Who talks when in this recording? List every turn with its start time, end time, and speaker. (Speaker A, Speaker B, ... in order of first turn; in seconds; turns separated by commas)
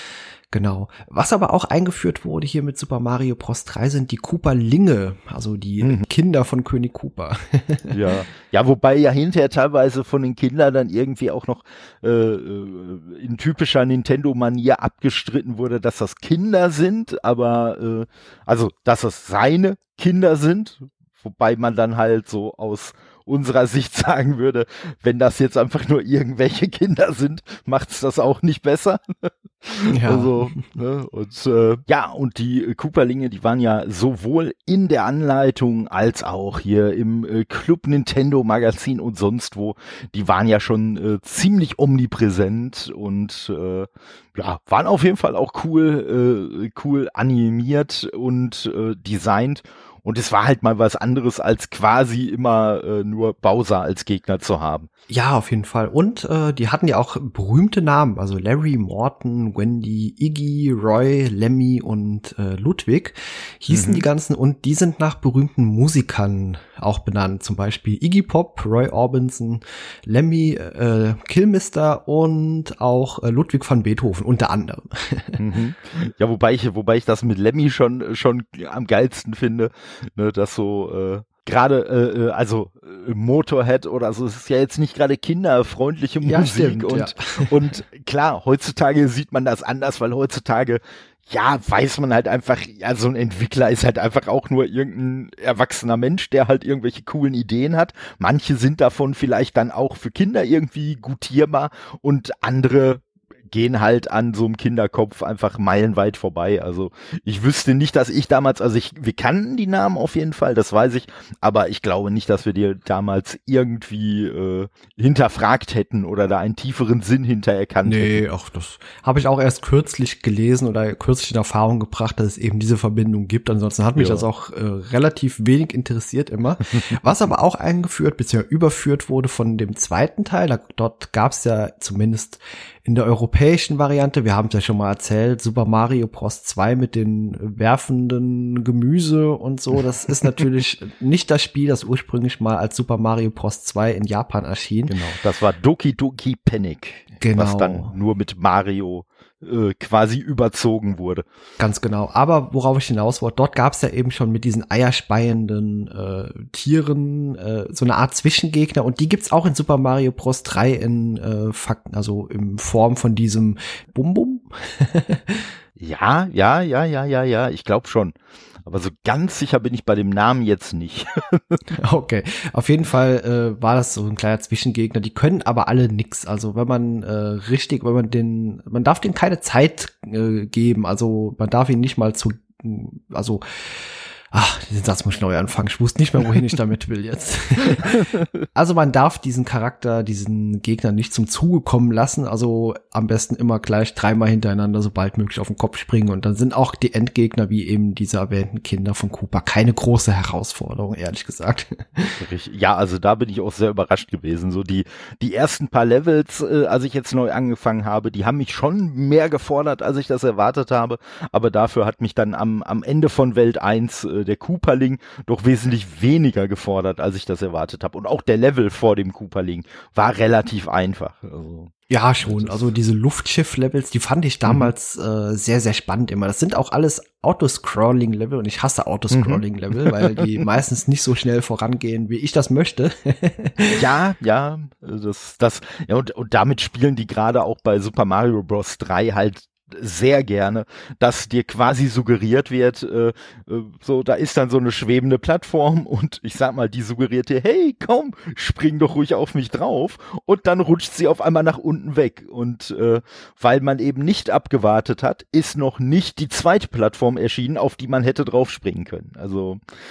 Speaker A: 0.5-8.0, Speaker B: 5.8-6.0, Speaker B: 7.9-54.9, Speaker A: 29.9-30.6, Speaker A: 55.1-75.4, Speaker B: 63.7-64.0, Speaker B: 75.4-118.2, Speaker A: 86.2-87.5, Speaker A: 117.8-145.0, Speaker B: 124.0-124.3, Speaker B: 144.9-151.2, Speaker A: 147.2-147.9, Speaker A: 151.6-165.5, Speaker B: 165.8-171.6, Speaker A: 171.7-183.4, Speaker A: 184.3-202.2, Speaker B: 202.2-222.7, Speaker A: 221.9-233.8, Speaker B: 224.4-224.7, Speaker B: 229.1-230.4, Speaker B: 233.7-259.6